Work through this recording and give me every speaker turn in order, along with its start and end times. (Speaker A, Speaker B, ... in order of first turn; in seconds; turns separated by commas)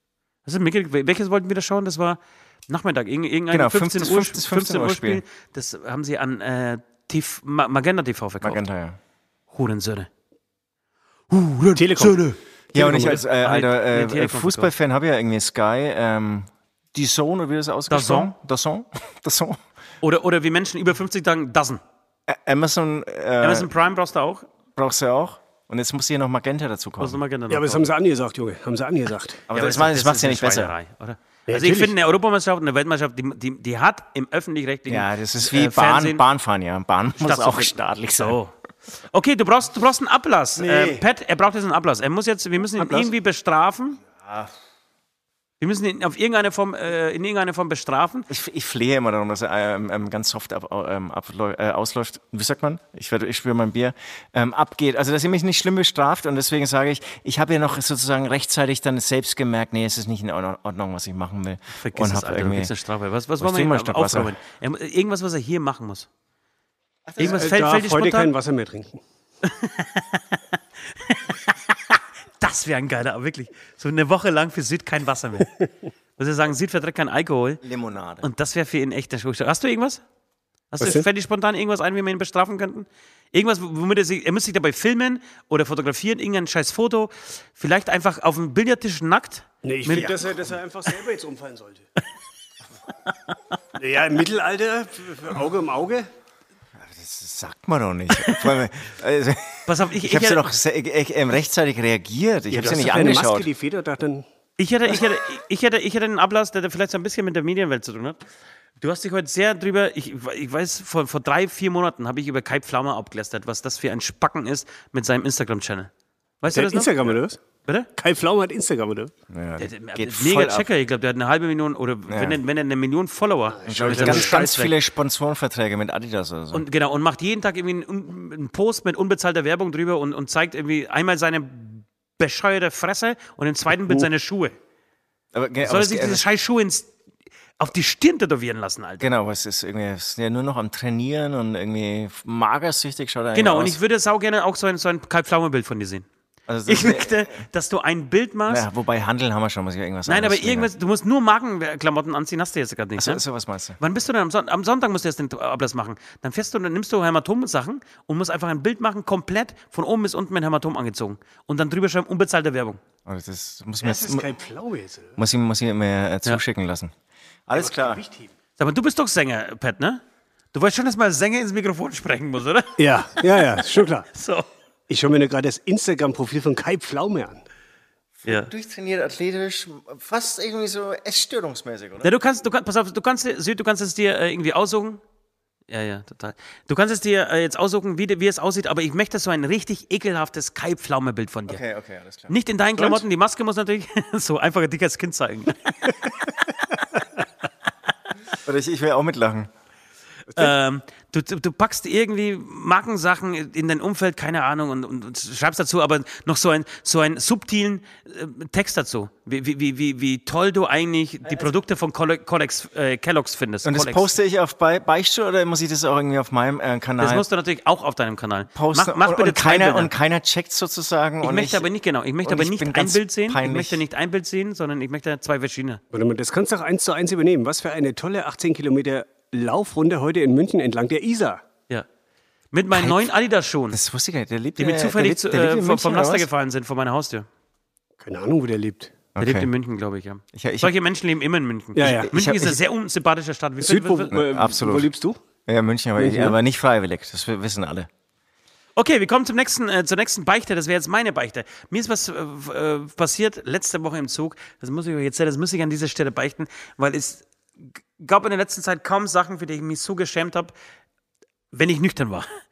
Speaker A: 0.4-8.6, Speaker B: 3.5-5.2, Speaker B: 8.4-9.0, Speaker A: 9.5-10.1, Speaker A: 11.3-12.3, Speaker C: 11.8-13.2, Speaker B: 12.7-19.6, Speaker A: 13.0-14.7, Speaker A: 17.9-18.3, Speaker A: 20.0-21.8, Speaker B: 22.3-23.7, Speaker A: 23.4-24.5, Speaker B: 24.8-27.2, Speaker A: 27.0-27.9, Speaker C: 27.5-29.4, Speaker B: 29.5-30.7, Speaker A: 29.5-36.2, Speaker C: 31.5-31.9, Speaker B: 34.9-38.4, Speaker A: 37.2-38.5, Speaker A: 39.1-44.0, Speaker B: 40.6-41.0, Speaker B: 42.8-43.1, Speaker B: 44.2-44.5, Speaker A: 45.6-48.3, Speaker B: 48.3-62.7, Speaker A: 61.7-66.1, Speaker B: 63.4-64.3, Speaker B: 67.0-67.6, Speaker A: 67.2-68.3, Speaker C: 67.2-69.0, Speaker A: 69.4-70.4, Speaker A: 71.0-75.6, Speaker A: 76.2-77.6, Speaker B: 77.6-78.2, Speaker A: 78.2-80.0, Speaker A: 80.7-90.3, Speaker C: 80.8-81.0, Speaker C: 89.6-91.9, Speaker A: 93.1-93.3, Speaker C: 93.8-96.1, Speaker B: 96.8-103.5, Speaker A: 98.2-98.5, Speaker A: 99.7-100.4, Speaker C: 102.5-104.2, Speaker A: 104.6-108.2, Speaker A: 108.8-115.9, Speaker A: 116.4-117.9, Speaker C: 116.5-117.4, Speaker C: 118.0-119.1, Speaker B: 119.3-120.7, Speaker A: 119.6-124.7, Speaker B: 122.1-122.4, Speaker C: 123.5-124.3, Speaker B: 123.7-126.6, Speaker A: 126.5-134.6, Speaker B: 135.3-136.2, Speaker A: 135.6-136.9, Speaker A: 137.6-139.1, Speaker B: 139.0-143.8, Speaker A: 143.3-146.1, Speaker B: 146.5-147.4, Speaker A: 146.7-148.7, Speaker B: 148.5-150.7, Speaker A: 150.1-153.2, Speaker B: 153.0-153.8, Speaker A: 153.8-162.8, Speaker B: 163.1-164.3, Speaker C: 163.8-165.2, Speaker B: 165.2-166.9, Speaker B: 167.5-168.0, Speaker C: 167.5-168.3, Speaker A: 168.6-170.0, Speaker A: 170.5-172.8, Speaker C: 172.8-174.1, Speaker A: 174.1-174.4, Speaker C: 174.9-177.4, Speaker B: 178.2-182.1, Speaker A: 178.2-178.5, Speaker A: 182.0-185.0, Speaker A: 185.7-191.6, Speaker B: 191.5-192.3, Speaker A: 192.3-195.9, Speaker C: 192.8-193.0, Speaker B: 198.3-199.5, Speaker A: 200.3-214.1, Speaker B: 213.6-217.2, Speaker A: 217.0-219.9, Speaker B: 218.5-221.7, Speaker A: 221.2-225.8, Speaker B: 222.2-223.8, Speaker C: 225.9-231.4, Speaker A: 232.5-233.8, Speaker B: 232.7-233.1, Speaker B: 233.7-236.3, Speaker A: 234.6-237.2, Speaker C: 238.0-238.9, Speaker B: 239.1-239.5, Speaker A: 239.2-244.1, Speaker B: 240.3-240.7, Speaker C: 241.7-242.1, Speaker B: 241.8-242.6, Speaker C: 243.6-245.2, Speaker B: 244.1-244.9, Speaker B: 245.5-247.9, Speaker C: 246.0-246.3, Speaker A: 248.8-257.2, Speaker A: 258.0-260.5, Speaker A: 261.5-262.3